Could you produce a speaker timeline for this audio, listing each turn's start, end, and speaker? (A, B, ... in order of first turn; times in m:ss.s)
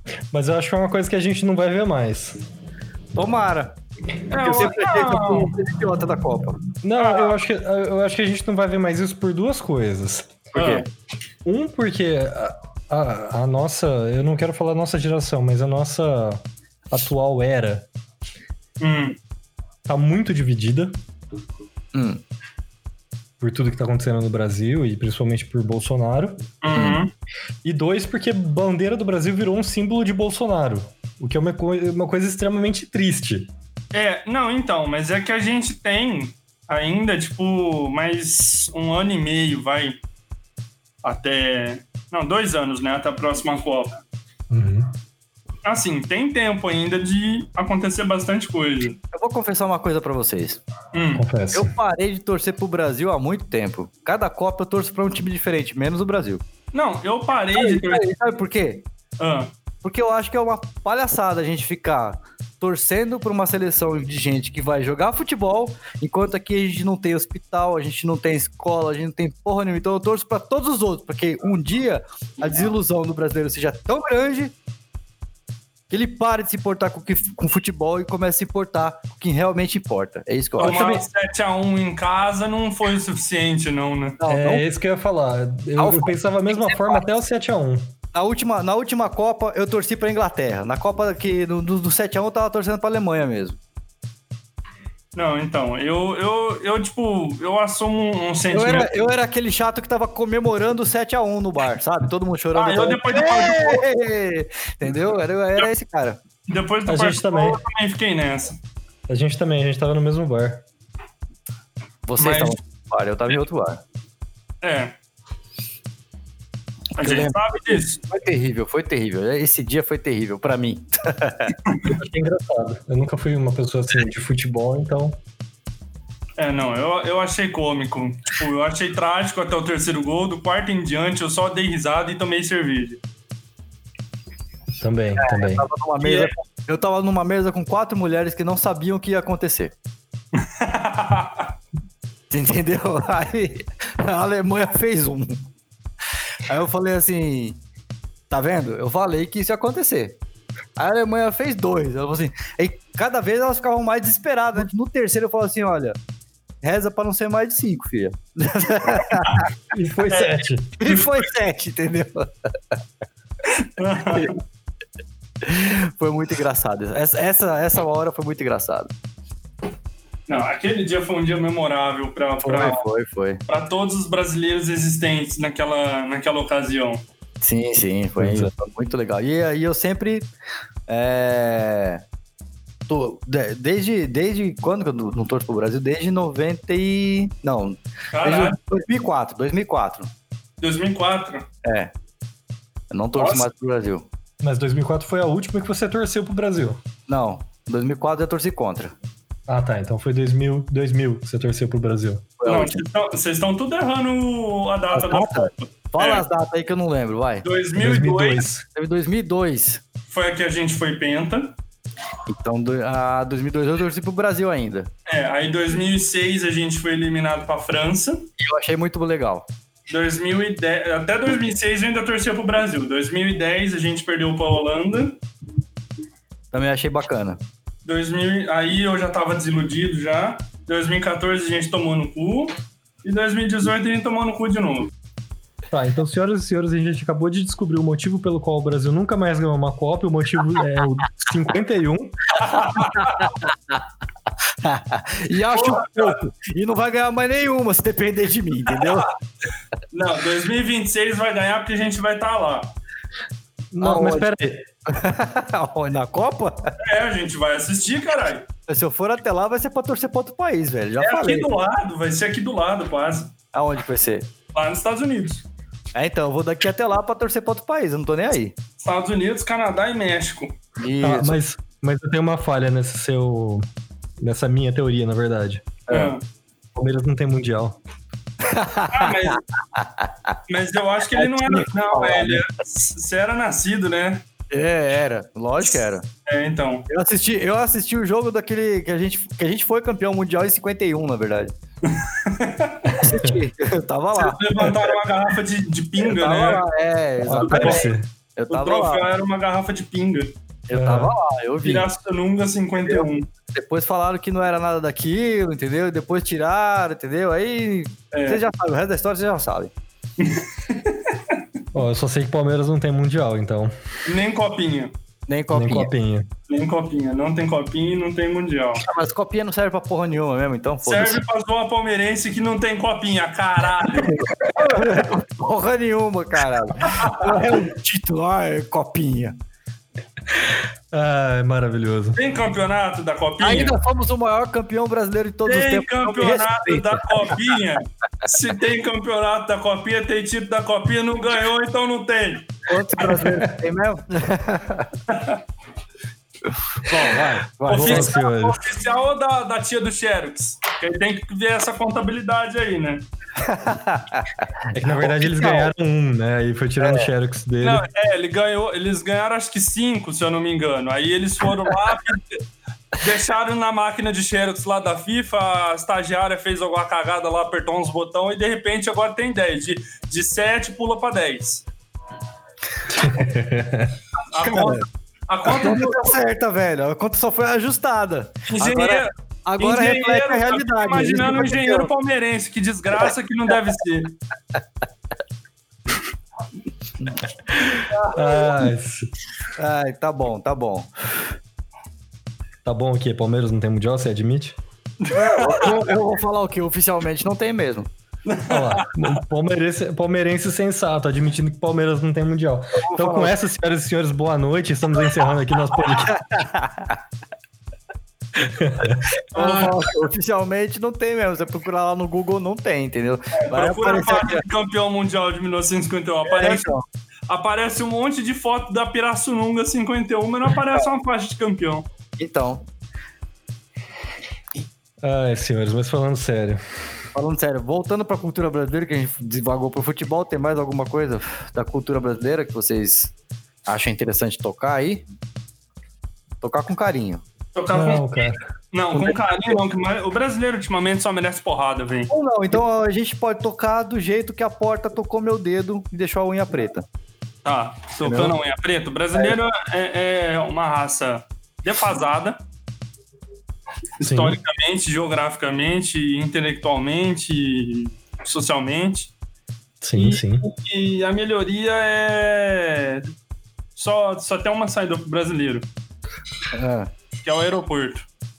0:00.3-0:02.4 A
0:03.1-0:03.8 B
0:04.3-0:05.6 C
0:04.3-0:06.6 B
0:06.8-0:10.3 A
0:07.0-0:07.4 C
0:10.5-0:10.8 B
0:10.5-0:10.8 C
0:11.4-0:17.9 A
0:18.8-0:19.2 C
0:19.8-0:21.0 A
0:21.9-0:22.2 B
0:23.4-0:26.5 A
0:26.6-0:27.1 C
0:26.7-0:27.0 B
0:27.6-0:33.5 A
0:33.9-0:40.0 C
0:41.0-0:44.0 C
0:44.5-0:44.9 A
0:45.6-0:49.0 C
0:49.1-0:50.6 B
0:50.9-0:51.2 C
0:51.2-0:51.7 A
0:51.5-0:56.4 B
0:56.7-0:58.1 C
0:57.5-0:58.8 B
0:59.2-0:59.5 C
0:59.8-1:14.5 B
1:15.9-1:20.8 B
1:20.6-1:24.2 C
1:20.6-1:21.0 A
1:24.2-1:24.6 B
1:24.3-1:27.9 A
1:25.8-1:27.0 B
1:28.1-1:33.6 B
1:35.1-1:38.9 C
1:38.5-1:46.2 B
1:42.5-1:43.8 C
1:46.5-1:48.6 C
1:46.9-1:47.6 A
1:49.1-1:50.6 A
1:52.0-1:53.8 B
1:52.2-1:52.6 C
1:54.6-1:54.9 C
1:57.0-2:01.5 B
1:57.0-1:58.0 C
2:01.8-2:05.2 A
2:06.4-2:13.0 C
2:14.8-2:15.7 A
2:15.2-2:19.7 B
2:16.0-2:16.3 C
2:20.4-2:21.5 C
2:22.3-2:25.5 B
2:26.4-2:27.6 B
2:28.3-2:30.2 B
2:30.8-2:36.0 B
2:36.6-2:39.5 B
2:39.7-2:40.8 A
2:40.1-2:41.1 C
2:40.8-2:42.8 B
2:43.5-2:44.3 C
2:45.4-2:48.9 B
2:50.3-2:52.8 C
2:52.4-2:53.4 B
2:53.5-2:57.0 C
2:57.4-3:00.3 B
2:58.2-2:58.5 A
3:00.9-3:02.0 B
3:02.9-3:10.1 B
3:08.1-3:08.6 C
3:10.6-3:11.4 C
3:11.6-3:11.9 B
3:12.9-3:14.1 B
3:13.2-3:13.5 C
3:14.4-3:16.8 A
3:17.1-3:18.9 B
3:19.5-3:22.2 A
3:22.4-3:22.8 B
3:22.4-3:26.2 C
3:24.9-3:27.4 B
3:27.4-3:28.5 C
3:27.8-3:28.6 A
3:28.7-3:29.8 B
3:30.1-3:31.5 C
3:32.3-3:34.9 B
3:35.1-3:38.2 C
3:38.4-3:39.5 B
3:39.9-3:45.2 C
3:46.5-3:47.4 B
3:47.8-3:54.9 C
3:55.7-4:02.4 A
4:02.4-4:03.3 C
4:02.7-4:03.8 B
4:04.6-4:09.1 B
4:05.5-4:06.2 C
4:08.8-4:09.0 C
4:09.9-4:12.7 C
4:13.7-4:14.6 A
4:13.8-4:16.7 B
4:16.8-4:18.5 C
4:18.7-4:21.5 B
4:21.0-4:23.3 C
4:23.5-4:24.3 B
4:24.5-4:25.5 C
4:25.9-4:28.6 B
4:28.8-4:30.6 C
4:30.8-4:31.4 B
4:31.0-4:33.7 A
4:34.2-4:35.7 A
4:35.9-4:36.2 B
4:35.9-4:36.2 C
4:36.7-4:37.8 A
4:38.4-4:40.4 B
4:38.9-4:39.4 C
4:40.5-4:44.2 C
4:41.1-4:42.4 B
4:44.5-4:46.0 B
4:46.2-4:46.9 C
4:46.9-4:51.5 B
4:51.8-4:52.9 C
4:52.9-4:53.4 A
4:52.9-4:55.0 B
4:54.1-4:56.6 C
4:56.0-4:59.1 B
4:57.2-4:58.1 A
4:57.4-4:57.9 C
4:58.5-5:00.3 C
5:00.7-5:01.9 B
5:00.7-5:01.1 A
5:01.6-5:03.3 C
5:02.8-5:09.7 B
5:08.1-5:08.4 C
5:10.2-5:11.4 C
5:11.7-5:13.7 A
5:14.0-5:14.9 C
5:15.3-5:15.9 B
5:15.5-5:16.3 A
5:16.5-5:18.8 C
5:18.8-5:21.2 B
5:20.8-5:24.3 C
5:24.0-5:29.4 B
5:27.0-5:27.3 C
5:30.9-5:32.2 A
5:32.2-5:33.8 C
5:33.4-5:37.4 B
5:35.4-5:43.4 C
5:42.6-5:44.9 B
5:45.1-5:45.4 C
5:46.8-5:48.1 B
5:46.9-5:53.1 C
5:47.7-5:48.7 A
5:53.4-5:55.7 B
5:54.7-5:57.8 A
5:56.8-5:57.1 B
5:57.6-6:11.6 C
6:12.9-6:14.0 A
6:14.3-6:16.1 C
6:14.4-6:14.8 B
6:15.4-6:21.9 B
6:18.5-6:24.2 C
6:27.7-6:29.1 A
6:27.8-6:28.2 B
6:29.6-6:30.9 B
6:32.6-6:34.6 A
6:35.0-6:35.7 C
6:35.1-6:37.9 B
6:38.2-6:39.0 C
6:38.5-6:46.2 A
6:42.8-6:43.4 B
6:45.8-6:47.0 B
6:48.4-6:49.1 A
6:49.1-6:54.4 B
6:49.3-6:49.9 C
6:53.4-6:56.7 C
6:56.2-6:56.8 B
6:57.3-7:01.8 C
7:02.2-7:02.6 B
7:05.0-7:06.6 A
7:07.1-7:13.1 B
7:13.7-7:15.0 B
7:16.4-7:17.2 B
7:17.5-7:22.1 C
7:17.7-7:18.4 A
7:18.9-7:19.6 B
7:22.1-7:26.8 B
7:27.4-7:32.4 C
7:28.0-7:28.3 A
7:34.0-7:39.1 C
7:34.0-7:34.4 A
7:39.8-7:40.5 A
7:39.9-7:43.1 C
7:43.7-7:45.7 C
7:46.5-7:46.9 B
7:47.2-7:48.1 C